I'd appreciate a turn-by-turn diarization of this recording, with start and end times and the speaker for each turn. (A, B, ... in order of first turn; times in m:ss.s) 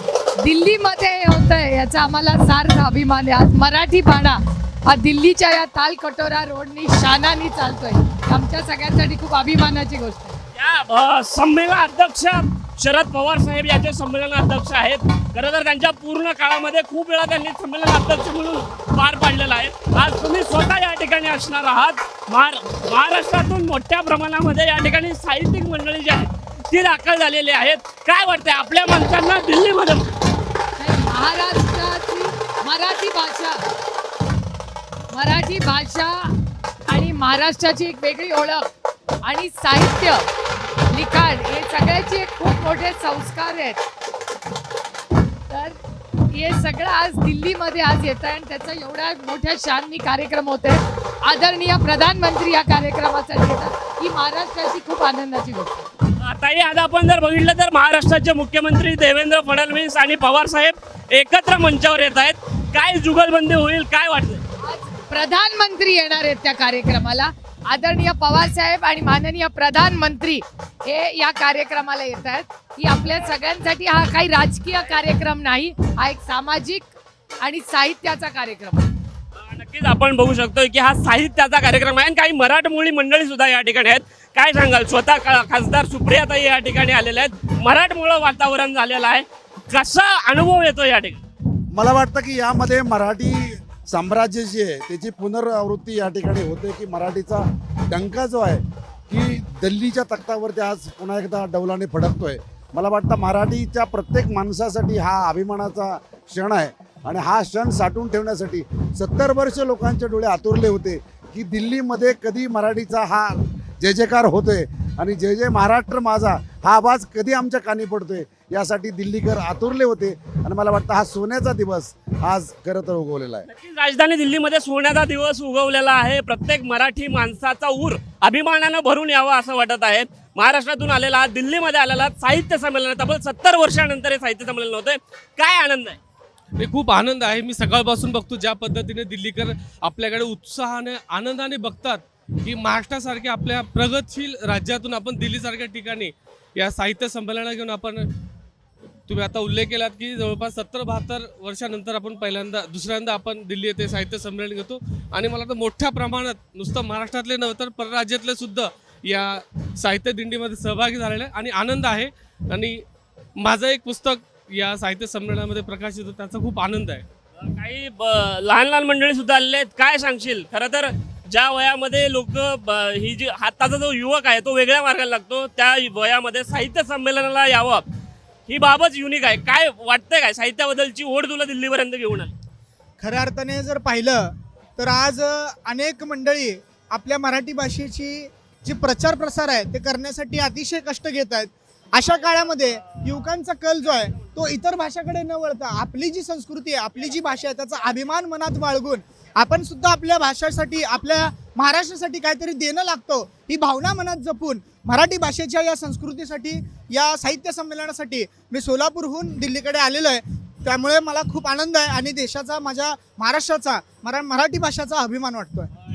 0:00.4-0:10.4 A
0:10.6-0:30.1 B
0:30.8-0:33.6 A
0:35.1-0:36.3 A
0:36.9-0:38.7 A
0:39.2-0:40.3 A
0:40.9-0:43.9 A
0:45.5-0:45.8 A
0:46.3-0:55.8 A
0:56.2-1:04.4 B
1:04.7-1:18.9 A
1:19.4-1:31.2 B
1:31.7-2:03.5 C
2:03.5-2:16.0 B
2:16.6-2:28.1 D
2:29.1-2:42.8 D
2:43.4-2:47.0 D
2:47.4-2:57.8 B
2:58.5-3:02.3 B
3:03.0-3:35.7 E